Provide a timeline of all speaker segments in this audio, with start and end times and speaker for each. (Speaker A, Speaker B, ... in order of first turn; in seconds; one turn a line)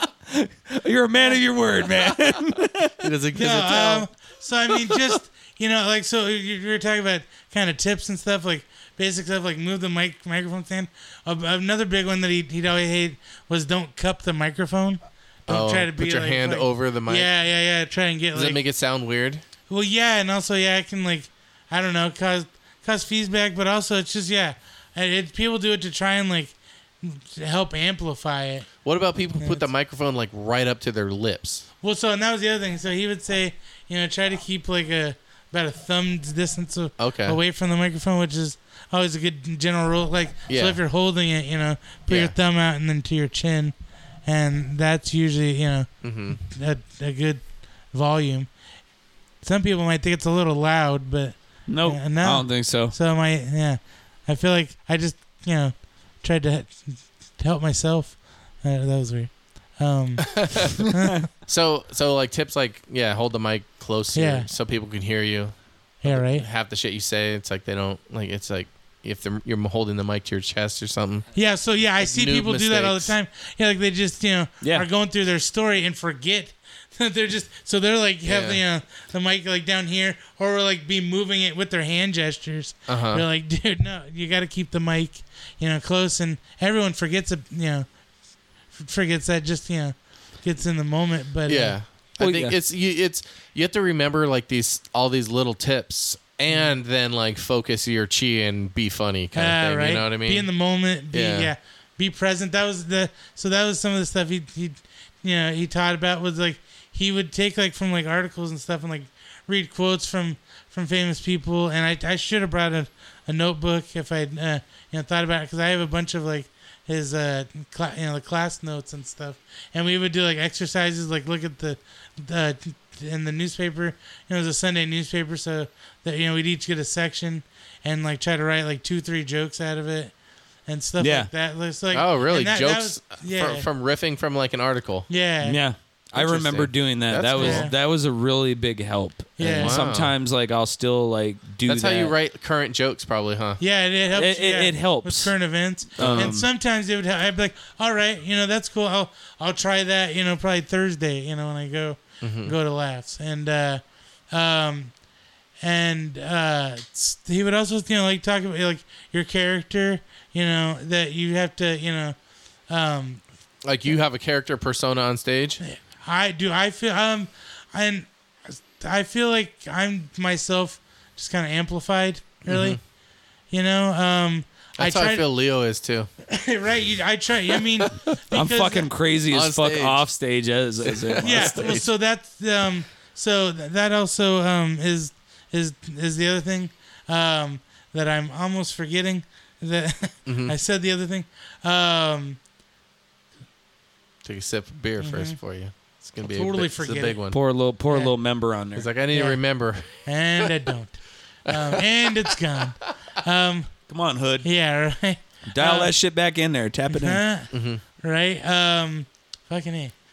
Speaker A: 0.3-3.1
Speaker B: 1.1-1.4
Speaker C: 3.0-4.1
Speaker B: 3.4-18.6
Speaker C: 15.5-17.3
Speaker C: 18.3-19.4
Speaker B: 19.7-28.7
Speaker C: 28.8-31.6
Speaker B: 29.4-29.7
Speaker B: 31.8-48.5
Speaker C: 37.0-37.4
Speaker C: 40.5-40.8
Speaker C: 42.1-42.3
Speaker C: 46.0-46.4
Speaker B: 49.4-61.2
Speaker A: 51.7-53.0
Speaker C: 60.4-60.8
Speaker C: 61.5-71.3
Speaker B: 64.1-64.5
Speaker B: 66.0-66.5
Speaker B: 71.3-87.9
Speaker C: 71.8-73.2
Speaker A: 74.6-74.9
Speaker C: 78.2-78.6
Speaker C: 82.9-83.2
Speaker B: 88.7-91.8
Speaker C: 91.5-100.5
Speaker A: 92.2-92.5
Speaker B: 99.3-130.1
Speaker C: 101.1-101.5
Speaker B: 130.7-133.7
Speaker A: 131.0-131.3
Speaker C: 131.9-135.1
Speaker B: 135.1-135.6
Speaker A: 135.4-142.1
Speaker C: 136.1-137.7
Speaker B: 137.3-137.7
Speaker B: 139.4-139.8
Speaker C: 139.6-140.1
Speaker C: 141.6-143.6
Speaker B: 143.6-155.0
Speaker A: 144.1-146.5
Speaker C: 146.0-146.3
Speaker C: 152.2-152.5
Speaker B: 155.6-162.2
Speaker B: 162.7-163.2
Speaker C: 163.6-165.6
Speaker B: 165.6-172.8
Speaker C: 172.4-172.8
Speaker B: 173.5-175.2
Speaker C: 174.8-176.1
Speaker B: 176.3-178.9
Speaker A: 178.3-181.8
Speaker C: 179.3-180.1
Speaker C: 180.8-181.9
Speaker B: 181.2-192.4
Speaker C: 190.2-190.5
Speaker C: 194.2-197.4
Speaker B: 195.0-195.4
Speaker B: 196.2-197.2
Speaker A: 197.3-198.9
Speaker B: 197.9-198.1
Speaker C: 198.7-200.5
Speaker B: 199.1-203.7
Speaker C: 201.5-202.9
Speaker A: 203.9-204.5
Speaker B: 204.4-205.9
Speaker A: 205.5-207.2
Speaker B: 206.9-209.9
Speaker C: 207.5-207.8